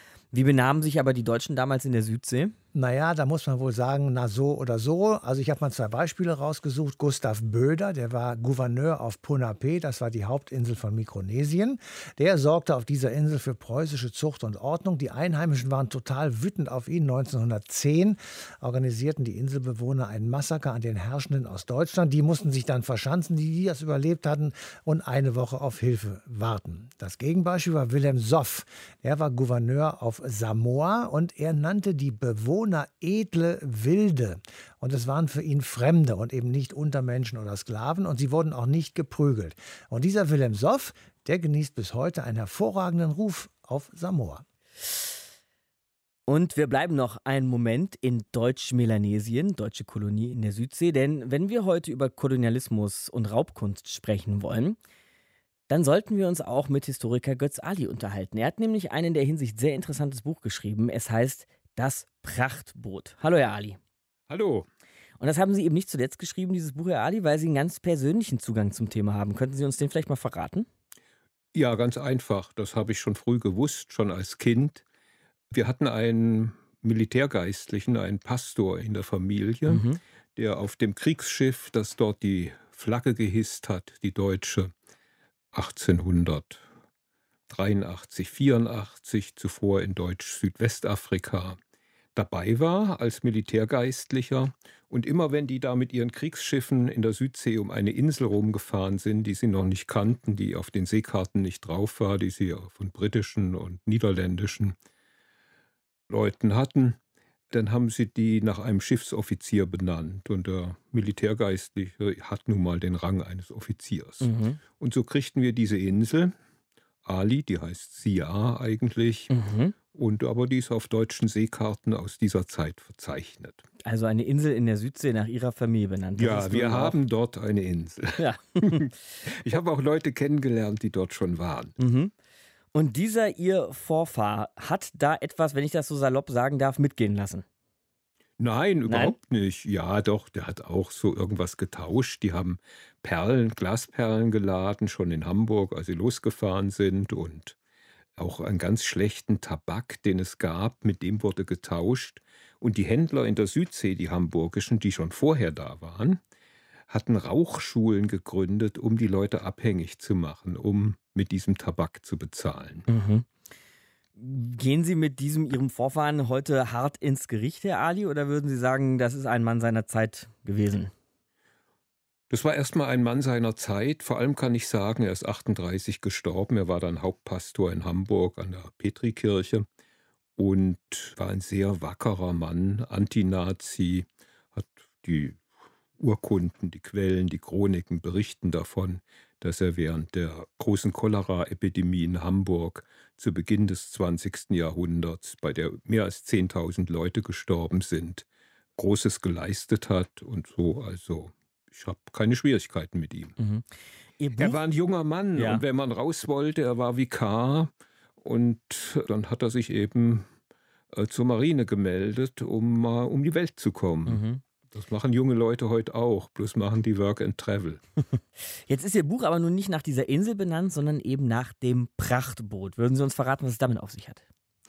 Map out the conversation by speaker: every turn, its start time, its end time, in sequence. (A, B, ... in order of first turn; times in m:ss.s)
0:00.3-0:02.6 A
0:02.7-0:44.4 B
0:46.3-0:54.8 A
0:55.7-1:03.8 A
1:04.3-1:04.7 C
1:05.2-1:10.7 A
1:11.5-1:14.8 C
1:15.5-1:19.8 C
1:19.7-1:20.0 A
1:20.4-1:24.7 C
1:25.5-1:26.6 C
1:27.5-1:31.6 C
1:32.2-1:44.8 C
1:46.1-1:47.0 C
1:47.5-1:56.3 C
1:54.2-1:54.6 A
1:57.0-1:59.3 C
1:59.3-1:59.7 A
1:59.9-2:03.6 C
2:03.8-2:07.0 A
2:06.2-2:11.8 C
2:08.2-2:08.9 A
2:11.8-2:12.1 A
2:12.7-2:17.4 A
2:18.4-2:27.6 C
2:18.9-2:19.2 A
2:28.2-2:36.2 C
2:36.9-2:42.9 C
2:42.9-2:43.3 A
2:44.2-2:50.9 A
2:52.3-2:59.7 C
3:00.4-3:05.4 C
3:06.0-3:18.2 C
3:18.8-3:23.4 C
3:23.4-3:23.7 A
3:24.2-3:24.6 A
3:24.4-3:30.3 C
3:25.4-3:25.6 A
3:30.9-3:37.8 C
3:34.1-3:34.4 A
3:38.7-3:44.2 A